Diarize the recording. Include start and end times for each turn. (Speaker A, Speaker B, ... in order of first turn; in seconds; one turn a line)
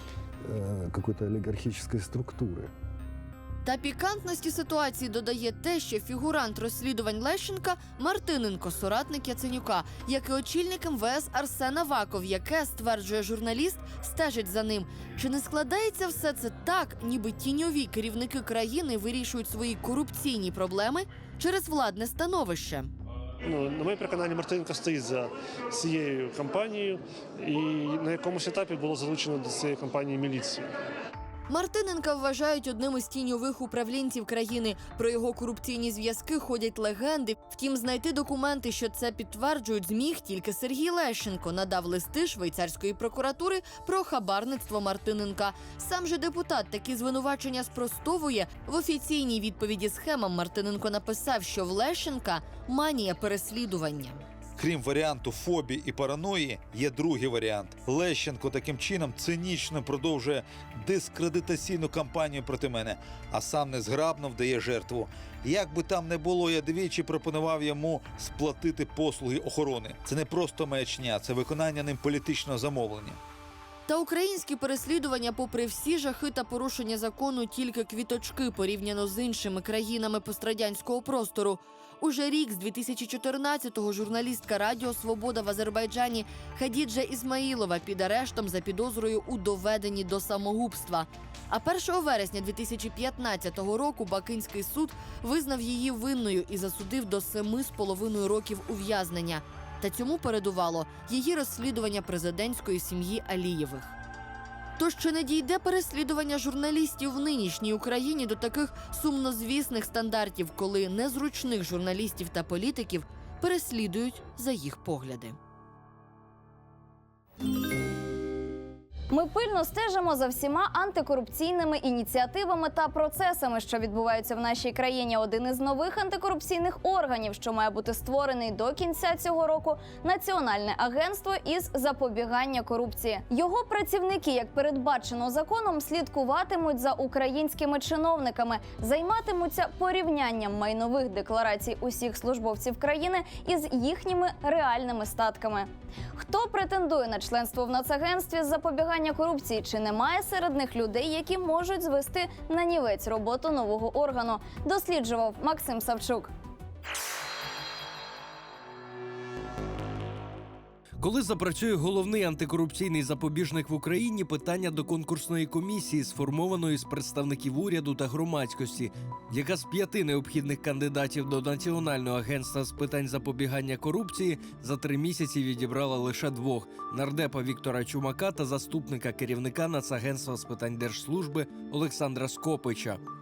Speaker A: 0.4-2.7
Speaker B: 3.6-22.9
Speaker C: 23.4-30.7
Speaker B: 31.5-54.2
Speaker D: 54.6-73.2
Speaker B: 73.9-104.0
Speaker B: 104.8-115.3
Speaker E: 119.1-156.3
Speaker F: 161.0-183.0